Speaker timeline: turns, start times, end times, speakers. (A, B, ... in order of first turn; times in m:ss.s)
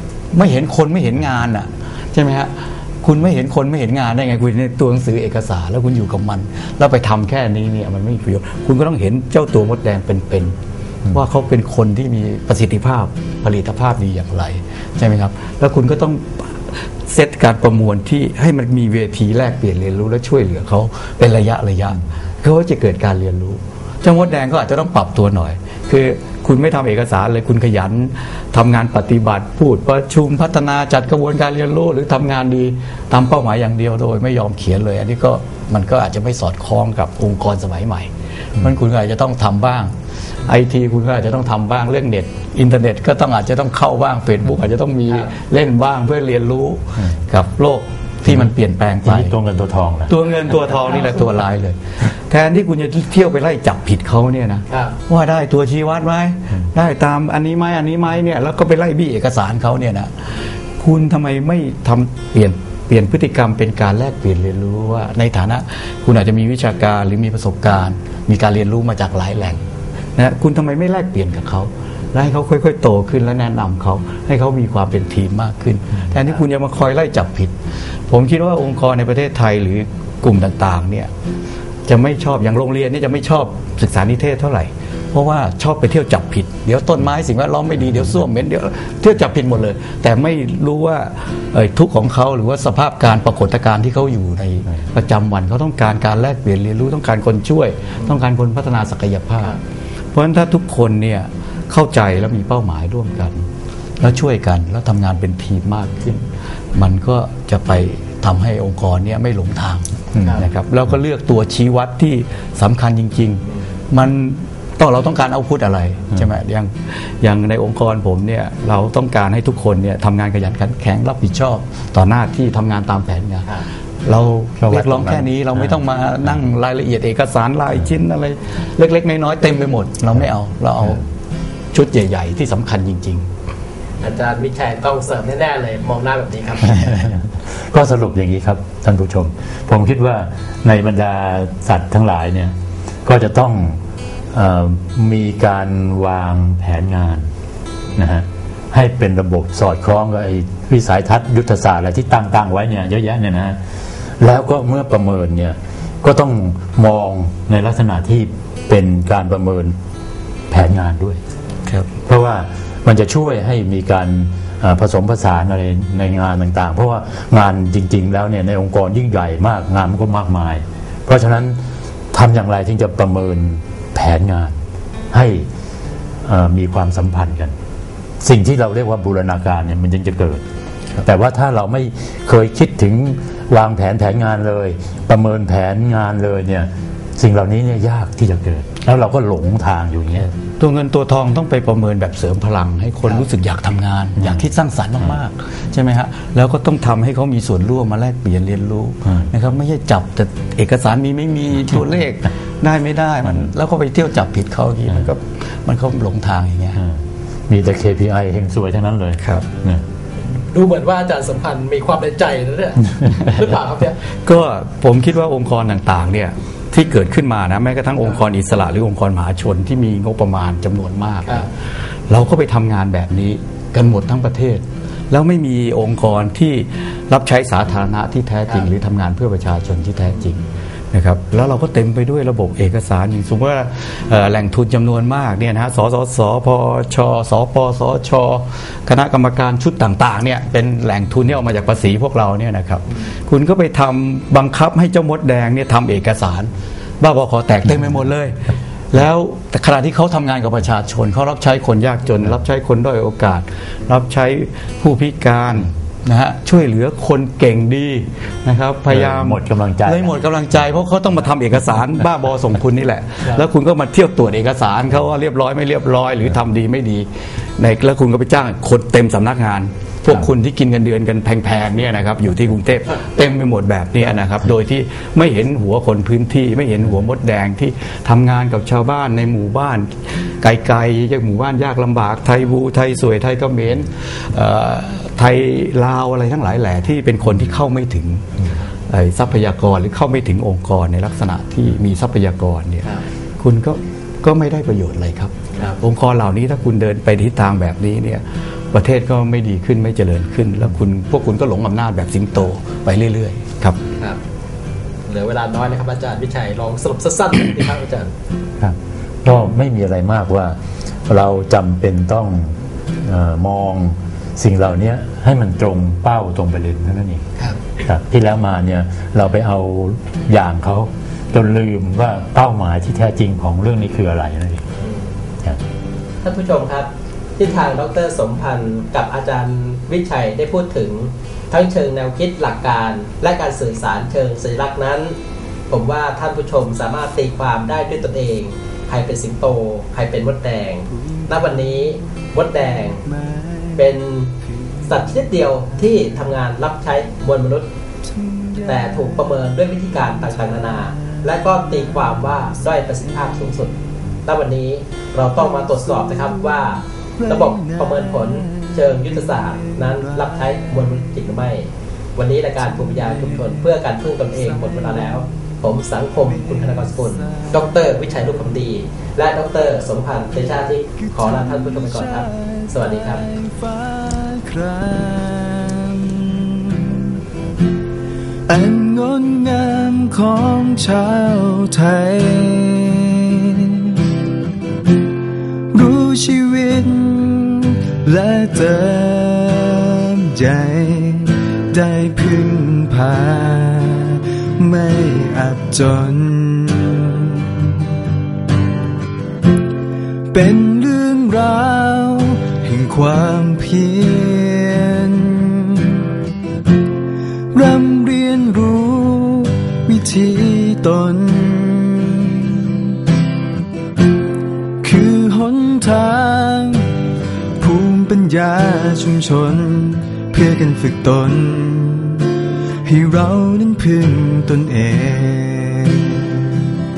0:00.3-0:10.5 A
0:11.1-0:49.4 A
0:48.2-0:48.5 B
0:49.0-0:50.1 B
0:50.1-1:00.1 A
0:54.7-0:54.9 C
1:00.8-1:09.6 A
1:10.2-1:17.5 A
1:18.1-1:21.1 A
1:21.9-1:39.6 A
1:40.1-1:43.4 A
1:44.0-2:03.5 A
1:50.1-1:50.4 B
2:04.0-2:11.0 A
2:04.6-2:06.4 B
2:11.7-2:13.3 A
2:14.0-2:17.0 C
2:16.8-2:22.5 B
2:23.0-2:23.8 B
2:24.3-2:27.3 B
2:28.0-2:33.6 B
2:34.2-2:39.7 B
2:40.5-2:41.2 B
2:42.0-2:51.6 B
2:52.1-2:54.6 B
2:55.1-2:55.4 B
2:56.2-2:57.5 B
2:58.2-3:00.4 B
3:01.0-3:10.3 B
3:10.6-3:26.8 A
3:14.2-3:14.5 B
3:19.0-3:19.3 B
3:26.8-3:29.8 B
3:30.5-3:34.0 C
3:34.2-3:41.5 A
3:42.1-4:48.3 A
4:18.9-4:20.1 B
4:48.9-5:03.8 A
5:05.1-5:08.1 C
5:08.6-5:10.6 B
5:11.1-5:17.2 B
5:17.8-5:24.6 B
5:24.8-5:25.1 C
5:26.2-5:35.2 C
5:35.7-5:43.0 C
5:41.0-5:41.8 D
5:43.0-5:44.0 D
5:43.8-5:44.3 C
5:44.5-5:45.2 D
5:44.8-5:47.7 C
5:48.0-5:49.3 D
5:48.6-5:53.7 C
5:49.9-5:53.2 D
5:54.2-6:13.2 C
5:55.4-6:00.7 D
6:02.6-6:03.8 D
6:04.3-6:05.2 D
6:06.1-6:07.9 D
6:11.0-6:17.2 D
6:18.5-6:24.1 D
6:25.7-6:38.0 D
6:40.3-6:46.1 D
6:47.5-6:53.0 D
6:54.8-6:57.0 D
6:57.6-7:06.7 D